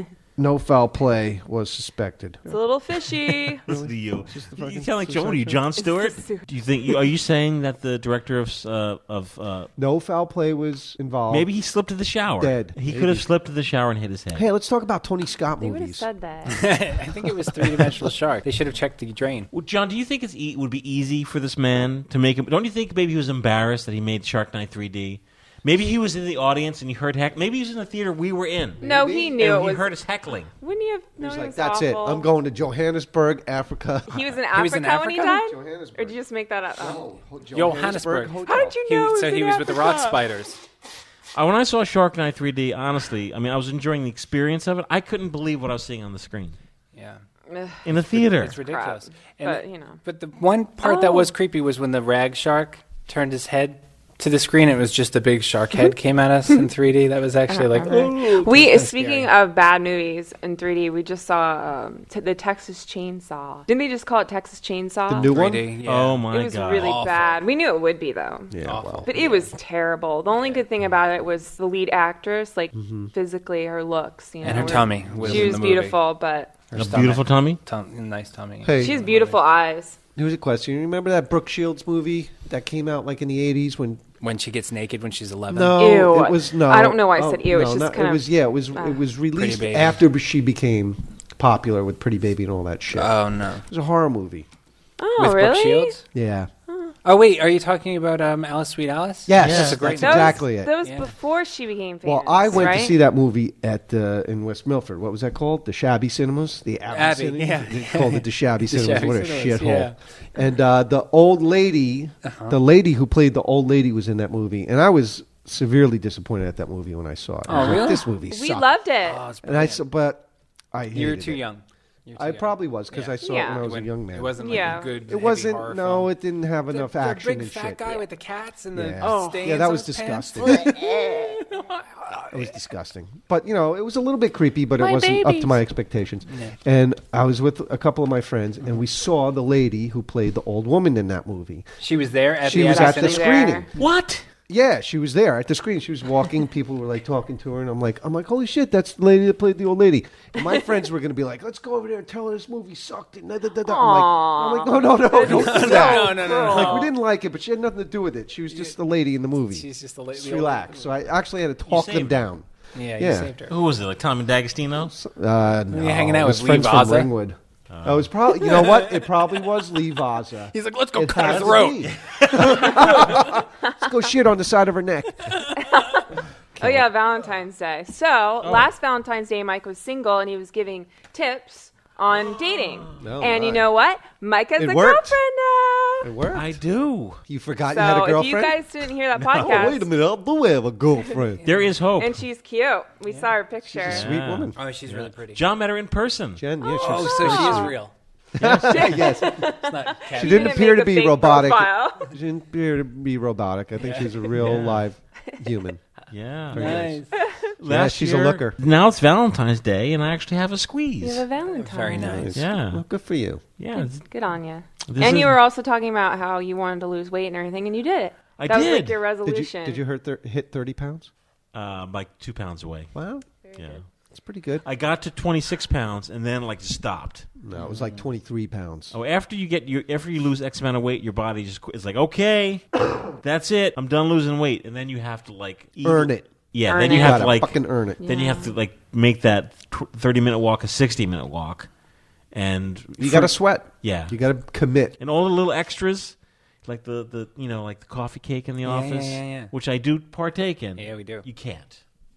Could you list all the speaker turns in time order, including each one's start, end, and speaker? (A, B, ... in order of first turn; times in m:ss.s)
0:00.4-0:02.6 A
0:02.5-0:03.6 B
0:03.6-0:09.7 C
0:03.6-0:05.6 A
0:05.8-0:06.4 B
0:09.8-0:11.5 A
0:11.3-0:14.4 C
0:12.4-0:13.3 A
0:14.3-0:16.1 A
0:15.6-0:16.7 B
0:16.5-0:19.5 D
0:19.5-0:28.8 C
0:28.8-0:29.4 A
0:28.8-0:29.9 B
0:29.3-0:30.5 C
0:30.6-0:32.3 B
0:31.2-0:34.3 A
0:34.1-0:37.0 B
0:34.5-0:35.4 D
0:35.3-0:36.2 A
0:36.8-0:38.8 A
0:37.5-0:40.6 D
0:38.4-0:40.2 B
0:41.3-0:46.6 C
0:46.9-0:47.2 D
0:47.5-0:47.9 B
0:47.8-0:48.6 C
0:48.1-0:59.3 D
0:48.5-0:50.0 B
0:50.8-0:51.3 B
0:57.5-1:05.4 B
1:05.1-1:05.7 A
1:05.2-1:07.4 D
1:05.8-1:07.0 C
1:06.3-1:16.5 B
1:08.5-1:09.1 A
1:08.6-1:09.5 D
1:12.7-1:13.1 A
1:14.4-1:16.0 D
1:14.8-1:15.5 A
1:16.7-1:19.4 D
1:16.7-1:17.6 C
1:18.6-1:19.0 A
1:18.7-1:20.0 B
1:20.2-1:24.0 A
1:24.2-1:25.8 D
1:25.5-1:34.5 A
1:25.7-1:29.0 B
1:29.3-1:30.0 D
1:32.9-1:33.6 D
1:35.0-1:36.0 B
1:35.2-1:36.0 D
1:36.1-1:36.5 A
1:37.0-1:41.1 D
1:39.2-1:40.8 A
1:39.4-1:39.8 C
1:40.0-1:43.0 B
1:42.0-1:58.7 A
1:46.9-1:50.0 D
1:52.2-1:52.6 D
1:57.5-1:58.1 D
1:57.6-1:59.2 B
1:59.0-1:59.8 D
1:59.4-2:01.5 A
2:00.9-2:06.1 D
2:02.2-2:08.0 A
2:03.2-2:03.7 B
2:04.4-2:04.9 B
2:06.7-2:12.4 D
2:08.7-2:11.0 A
2:09.0-2:09.4 B
2:12.3-2:21.7 A
2:16.3-2:16.5 D
2:21.8-2:23.5 D
2:22.4-2:23.7 A
2:22.5-2:23.7 B
2:23.8-2:24.2 C
2:24.5-2:43.3 A
2:30.4-2:30.7 B
2:33.6-2:36.9 B
2:35.2-2:36.9 D
2:38.5-2:38.8 D
2:39.5-2:41.0 D
2:41.7-2:42.2 C
2:42.7-2:43.5 D
2:43.5-2:44.9 C
2:44.8-2:55.4 A
2:45.7-2:47.1 D
2:47.7-2:48.1 C
2:48.4-2:48.9 D
2:50.5-2:51.8 D
2:51.2-2:53.2 C
2:53.6-2:53.9 B
2:55.6-2:56.0 B
2:56.6-2:56.8 A
2:56.6-3:06.1 B
2:58.4-2:58.7 C
3:03.0-3:03.7 A
3:04.6-3:05.2 A
3:06.0-3:06.6 A
3:06.3-3:07.2 C
3:07.2-3:08.6 A
3:07.7-3:09.9 B
3:09.2-3:09.7 C
3:09.3-3:11.4 A
3:11.4-3:11.7 D
3:11.4-3:12.2 C
3:12.0-3:14.1 B
3:13.7-3:14.6 A
3:13.9-3:16.4 C
3:14.5-3:15.4 D
3:16.4-3:17.8 A
3:16.6-3:17.8 B
3:16.8-3:17.9 D
3:18.4-3:19.6 A
3:18.4-3:18.8 C
3:18.6-3:22.1 B
3:19.5-3:20.7 D
3:20.1-3:25.8 A
3:23.8-3:24.7 D
3:24.4-3:24.8 C
3:26.1-3:26.9 C
3:26.5-3:27.0 A
3:26.5-3:27.1 D
3:27.6-3:31.2 C
3:27.6-3:28.6 A
3:31.0-3:32.2 B
3:31.5-3:32.4 D
3:32.0-3:33.4 A
3:32.3-3:32.8 C
3:33.6-3:34.0 C
3:33.7-3:39.8 B
3:34.9-3:35.4 C
3:38.4-3:39.0 C
3:39.2-3:41.1 A
3:41.5-3:42.9 C
3:42.9-3:43.3 A
3:43.6-3:43.8 C
3:44.1-3:44.6 A
3:44.6-3:47.3 C
3:47.4-3:49.0 A
3:47.5-3:48.0 D
3:48.9-4:01.7 C
3:55.8-3:58.0 A
3:56.7-3:57.3 B
3:58.0-3:58.5 B
4:02.3-4:04.2 C
4:03.0-4:05.0 A
4:05.0-4:11.8 C
4:08.6-4:09.5 D
4:10.8-4:11.2 D